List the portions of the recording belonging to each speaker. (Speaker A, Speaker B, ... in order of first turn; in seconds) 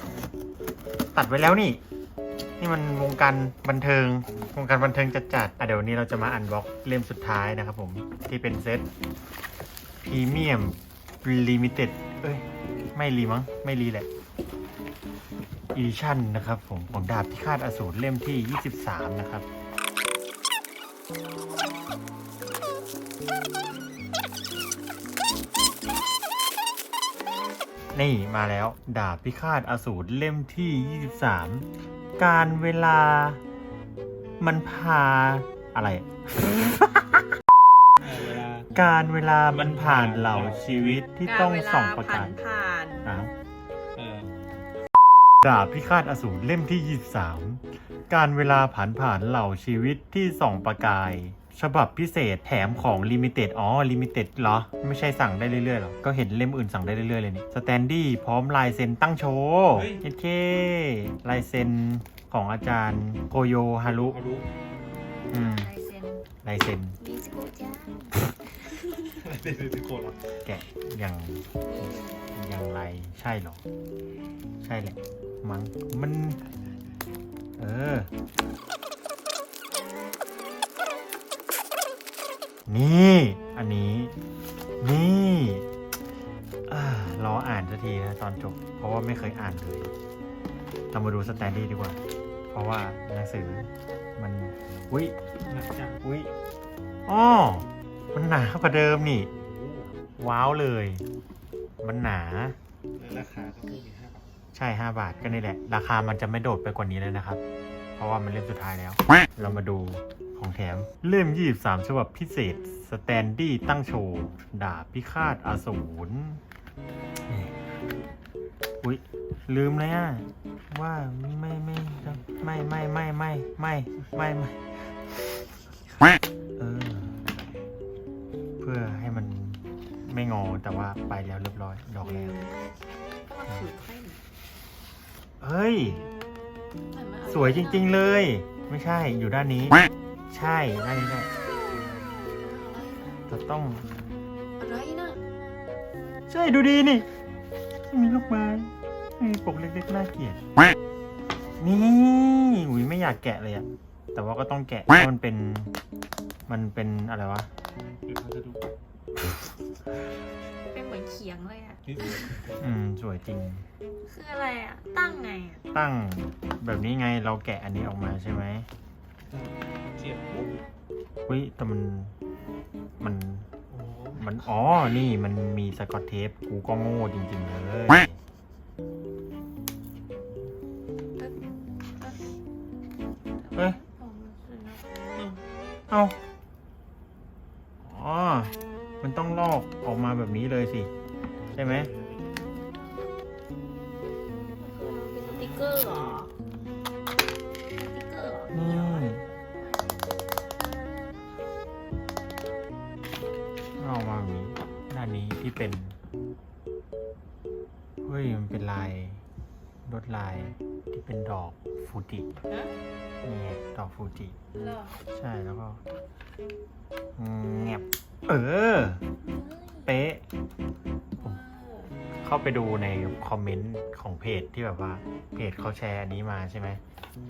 Speaker A: 1.1-1.8, 2.6-8.9, 10.0-14.1, 15.7-19.4, 27.9-33.4, 34.4-37.3, 38.7-42.4, 43.0-43.3, 45.4-64.2, 65.3-65.7, 66.4-67.0, 70.4-71.5, 72.3-73.6, 74.6-76.4, 77.6-78.1, 82.7-84.2, 84.8-85.6, 86.7-89.9, 90.9-92.0, 92.5-95.1, 96.0-96.3, 97.1-99.3, 100.2-101.0, 101.8-102.6, 104.5-107.4, 108.0-116.4, 117.2-117.5, 118.8-125.3, 126.6-127.2, 128.6-132.3, 135.4-136.0, 137.3-139.8, 140.3-141.3, 143.3-143.8, 146.3-147.1, 147.9-150.4, 151.6-155.7, 156.5-157.5, 162.6-163.6, 165.7-168.7, 171.3-172.1, 173.0-173.5, 174.1-178.2, 185.9-186.1, 187.8-190.9, 191.6-191.9, 198.5-199.2, 203.8-206.0, 208.0-209.2, 209.8-212.3, 213.2-214.4, 215.1-215.8, 217.2-219.0, 219.8-220.2, 222.2-226.8
Speaker B: 38.0-38.7, 39.5-41.0, 43.9-44.3, 59.7-60.0, 64.1-64.5, 69.2-70.2, 95.4-96.0, 99.3-100.0, 103.0-104.2, 158.1-158.7, 161.8-162.7, 169.2-170.6, 173.7-174.2, 191.6-192.5, 195.2-196.3
Speaker C: 41.2-43.0, 64.8-66.2, 67.0-69.2, 71.6-72.2, 132.0-132.6, 133.2-134.2, 136.9-138.0, 142.3-143.2, 144.6-145.2, 160.7-162.3, 164.1-165.6, 183.4-184.8, 194.6-196.3, 197.9-200.1, 212.5-212.7, 214.5-215.0, 219.2-219.9, 221.2-221.9